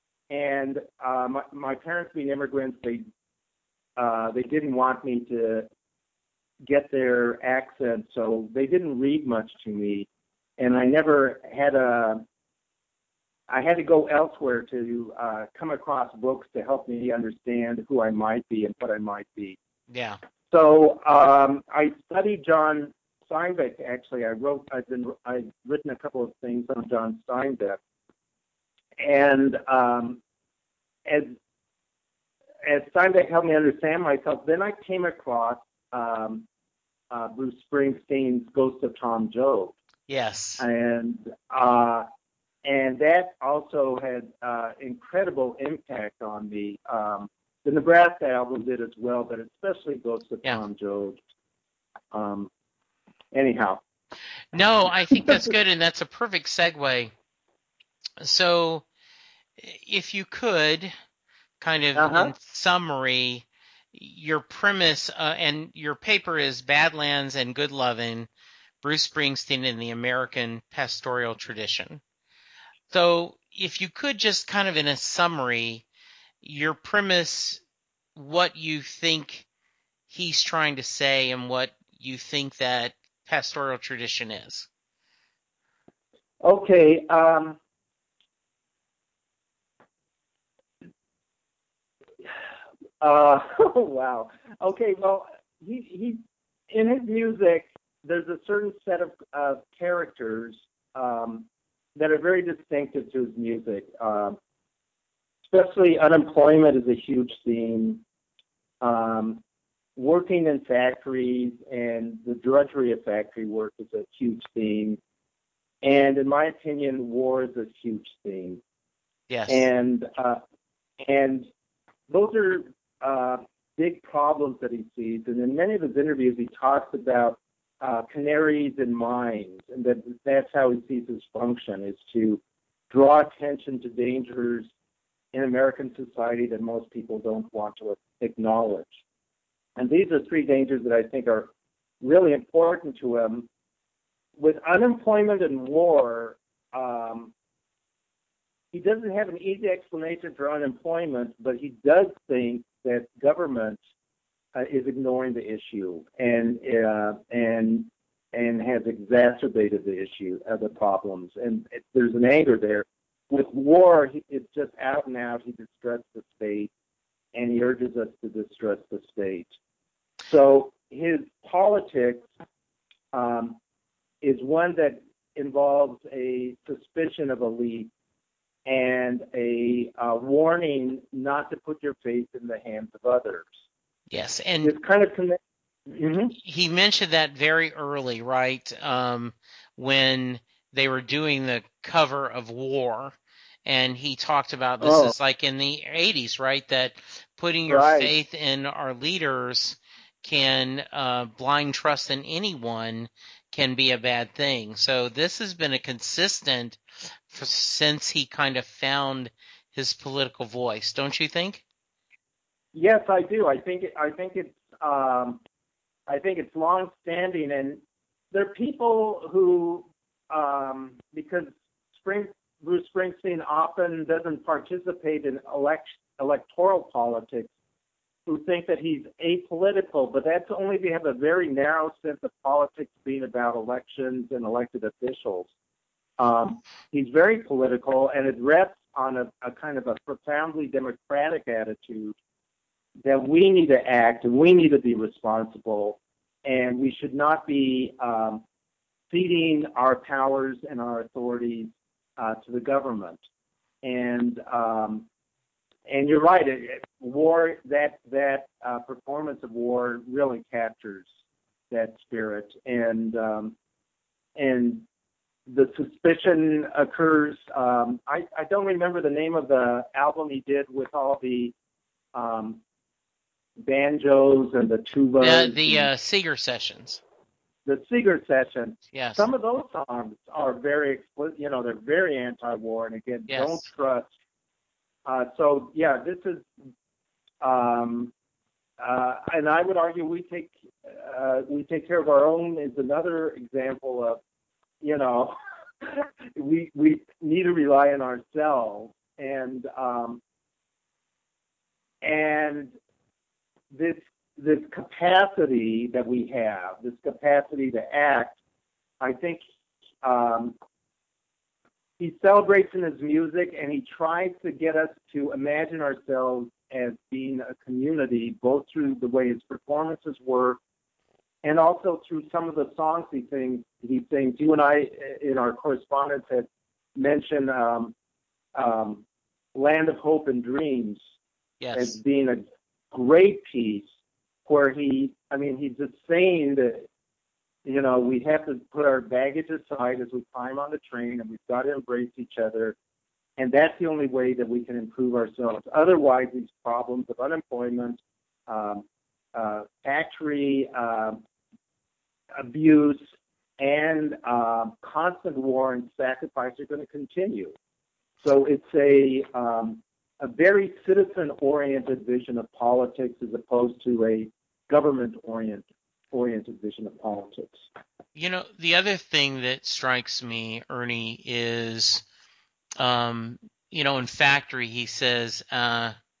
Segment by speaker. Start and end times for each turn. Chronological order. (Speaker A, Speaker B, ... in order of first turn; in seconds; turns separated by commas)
Speaker A: 0.3-3.0, Speaker A: 4.0-5.7, Speaker A: 6.7-12.2, Speaker A: 13.5-19.6, Speaker B: 19.9-20.2, Speaker A: 20.5-27.8, Speaker A: 29.0-30.2, Speaker A: 31.1-31.3, Speaker A: 32.6-36.4, Speaker A: 37.1-39.7, Speaker B: 40.1-40.6, Speaker A: 40.6-42.1, Speaker A: 42.6-51.2, Speaker A: 52.1-52.5, Speaker A: 53.3-53.8, Speaker B: 54.5-57.1, Speaker B: 58.2-58.8, Speaker B: 59.6-60.9, Speaker B: 61.6-68.3, Speaker A: 62.0-62.3, Speaker B: 68.8-72.0, Speaker B: 72.9-75.8, Speaker B: 76.4-77.6, Speaker B: 78.2-79.5, Speaker B: 80.1-84.7, Speaker A: 86.4-87.6, Speaker A: 93.0-104.4, Speaker A: 105.5-108.0, Speaker A: 108.8-109.4, Speaker A: 110.0-115.0, Speaker A: 115.8-118.6, Speaker B: 119.3-119.7, Speaker A: 119.5-120.4, Speaker A: 121.0-121.5, Speaker A: 122.1-134.7, Speaker A: 135.3-138.9, Speaker A: 139.8-143.5, Speaker A: 144.4-147.3, Speaker A: 148.7-153.8, Speaker A: 154.6-166.7, Speaker A: 167.3-169.6, Speaker A: 170.2-172.3, Speaker A: 173.1-173.6, Speaker A: 174.2-177.9, Speaker A: 178.7-183.5, Speaker B: 184.1-184.7, Speaker A: 184.6-186.3, Speaker B: 186.4-211.6, Speaker A: 194.8-195.1, Speaker A: 197.7-198.2, Speaker A: 212.7-215.4, Speaker A: 216.1-217.8, Speaker A: 218.3-227.5, Speaker A: 228.3-235.5, Speaker A: 236.2-242.2, Speaker A: 243.0-248.4, Speaker A: 249.1-253.2, Speaker A: 253.8-255.1, Speaker A: 255.9-261.1, Speaker A: 261.7-263.5, Speaker A: 264.4-264.8, Speaker A: 265.5-271.5, Speaker A: 272.1-272.6, Speaker A: 273.6-275.9, Speaker B: 275.2-277.0, Speaker A: 277.6-284.1, Speaker B: 278.9-279.3, Speaker B: 283.3-283.6, Speaker A: 285.1-286.5, Speaker A: 287.4-288.1, Speaker A: 288.8-294.2, Speaker A: 294.8-300.2, Speaker A: 302.0-302.7, Speaker A: 303.7-308.4, Speaker A: 309.0-309.4, Speaker A: 310.0-310.6, Speaker A: 312.0-320.6, Speaker A: 321.4-327.9, Speaker A: 328.5-329.0, Speaker A: 329.5-331.0, Speaker B: 331.6-332.0, Speaker A: 331.7-333.9, Speaker A: 334.4-336.9, Speaker A: 337.6-342.8, Speaker A: 343.4-348.8, Speaker A: 349.3-351.2, Speaker A: 352.4-353.1, Speaker A: 353.6-357.5, Speaker A: 358.2-367.6, Speaker B: 368.1-372.0, Speaker B: 372.8-375.9